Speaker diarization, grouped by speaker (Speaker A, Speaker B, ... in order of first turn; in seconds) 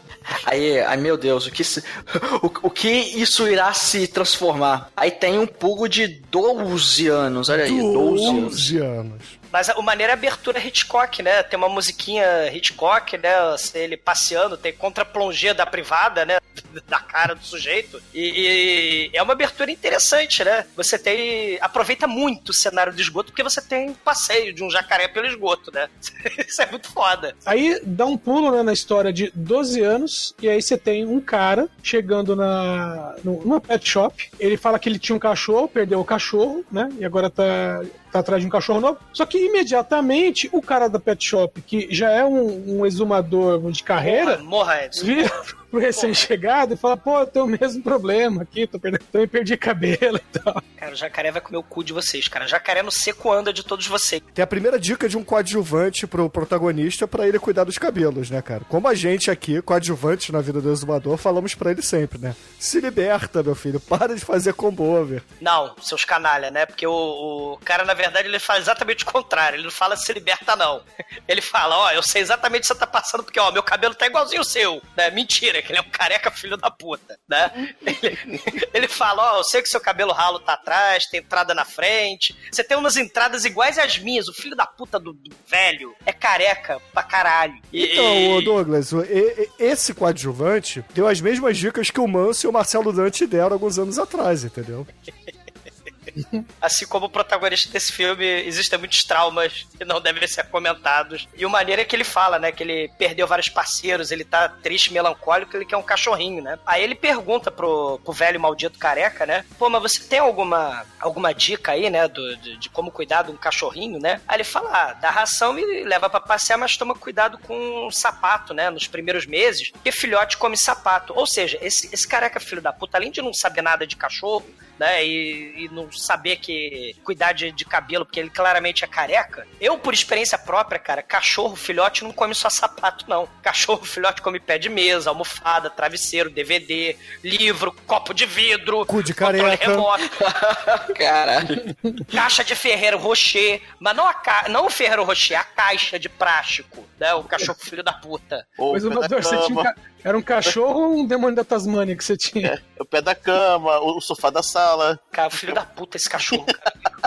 Speaker A: 0.4-8.7, 140.2-141.7
Speaker B: 7.5-9.4, 54.4-65.2, 87.7-94.9, 138.9-139.9
Speaker C: 8.2-8.5, 9.5-27.4, 44.0-45.4, 45.9-46.3, 50.8-54.2, 65.4-88.6, 96.6-140.2, 142.1-148.5, 155.1-156.9
Speaker D: 27.5-44.4, 45.0-50.6, 148.7-152.5
Speaker E: 148.6-149.7, 152.4-155.6